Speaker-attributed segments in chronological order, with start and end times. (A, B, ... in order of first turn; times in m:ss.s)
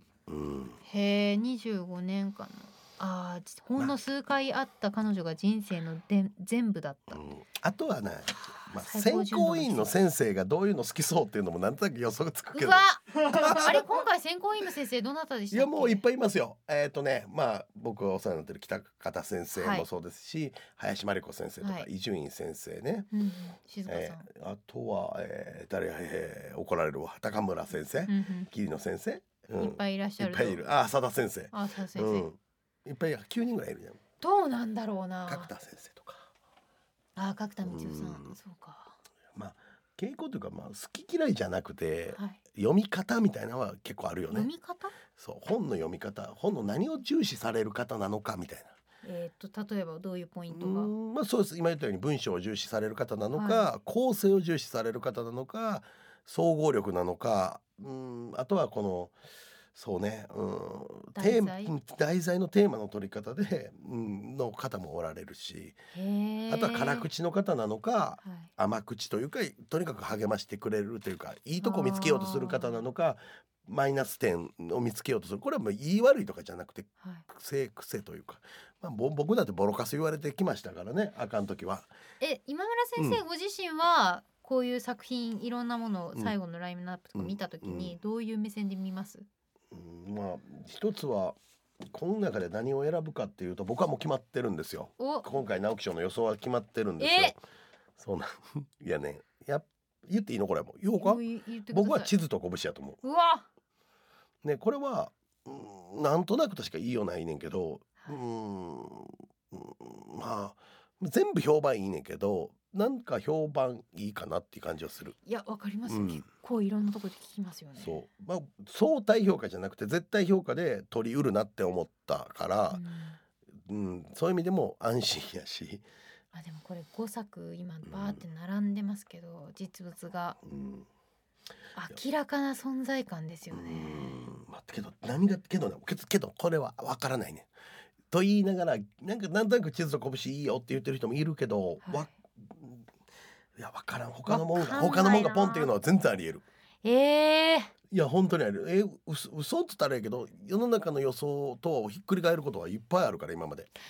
0:00.3-0:00.8 A
0:00.8-0:07.2 B
0:07.1-0:13.9 A
0:08.8-0:09.9 B
0:12.5-0:16.0 B
0:15.5-0:23.1 A
0:19.6-0:19.9 B
0:21.6-0:21.9 B
0:23.1-0:24.3 B
0:23.9-0:34.0 A
0:28.1-0:28.5 B
0:29.6-0:30.6 B
0:31.5-0:32.3 B
0:34.2-0:35.5 B
0:35.3-0:36.3 A
0:37.2-0:39.0 B
0:37.6-0:38.4 A
0:39.3-0:44.5 A
0:42.1-0:42.4 B
0:44.3-0:45.0 B
0:45.1-0:48.8 A
0:49.0-0:50.9 B
0:50.5-0:59.2 A
0:53.3-0:53.7 B
0:59.7-1:05.8 A
1:01.2-1:01.7 B
1:05.9-1:07.1 B
1:06.5-1:21.9 A
1:08.2-1:08.5 B
1:11.6-1:12.8 B
1:22.2-1:29.3 B
1:27.2-1:28.0 A
1:29.7-1:37.4 A
1:35.0-1:35.3 B
1:37.0-1:37.4 B
1:38.0-1:43.0 A
1:41.0-1:42.1 B
1:43.0-1:43.4 B
1:44.4-1:55.2 A
1:55.2-1:58.0 B
1:55.9-1:56.2 A
1:57.8-2:02.8 A
2:02.7-2:03.2 B
2:03.6-2:05.8 A
2:06.3-2:10.4 B
2:07.9-2:08.2 A
2:10.4-2:10.9 A
2:11.8-2:14.2 B
2:13.5-2:17.5 A
2:18.1-2:22.9 A
2:21.8-2:22.1 B
2:23.6-2:26.4 A
2:24.3-2:25.7 B
2:26.8-2:27.7 B
2:27.9-2:33.7 A